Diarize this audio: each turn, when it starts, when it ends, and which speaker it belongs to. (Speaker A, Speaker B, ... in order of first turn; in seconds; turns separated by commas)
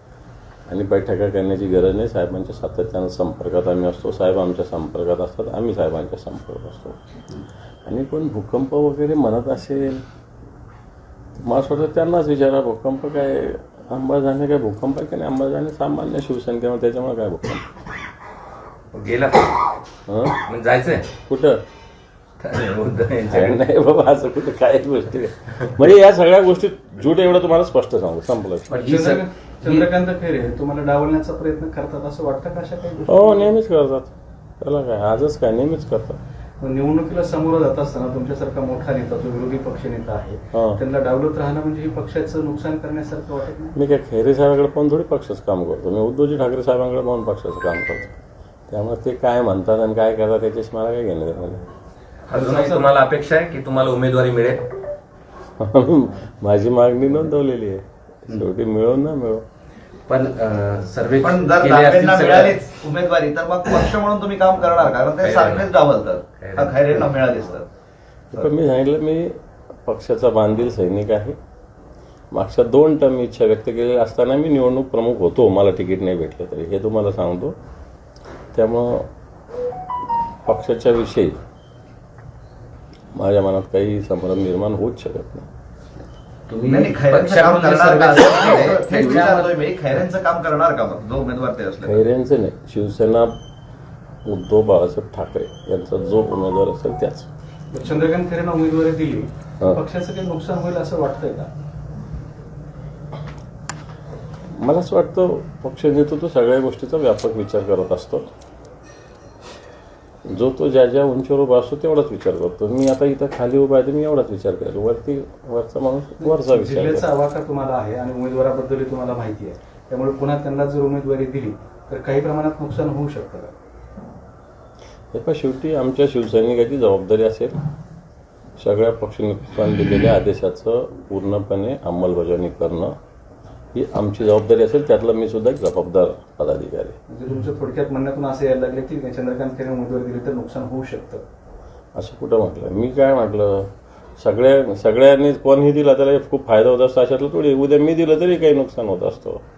Speaker A: 0.7-7.0, Speaker A: 7.9-10.0, Speaker A: 11.4-17.7, Speaker B: 18.9-19.7, Speaker A: 20.1-20.4, Speaker B: 20.5-21.1, Speaker A: 21.3-21.6, Speaker B: 22.4-23.6, Speaker A: 23.3-28.9, Speaker C: 28.7-29.9, Speaker D: 28.8-33.5, Speaker A: 33.1-36.2, Speaker D: 36.6-43.8, Speaker A: 40.5-40.8, Speaker A: 43.8-48.2, Speaker A: 48.7-51.7, Speaker D: 52.3-52.9, Speaker B: 52.3-54.6, Speaker A: 55.6-59.4, Speaker C: 60.1-62.6, Speaker E: 61.2-67.7, Speaker B: 65.2-65.7, Speaker A: 68.3-71.4, Speaker A: 72.3-77.5, Speaker A: 78.5-79.1, Speaker A: 80.5-81.4, Speaker A: 83.1-85.5, Speaker C: 86.5-89.5, Speaker E: 86.7-92.0, Speaker A: 91.8-93.4, Speaker A: 94.2-97.3, Speaker D: 97.7-101.5, Speaker A: 104.6-108.3, Speaker A: 110.3-117.1, Speaker D: 116.2-123.5, Speaker A: 125.1-127.5, Speaker A: 128.6-133.0, Speaker A: 133.7-137.0, Speaker D: 137.1-141.2, Speaker A: 142.0-149.4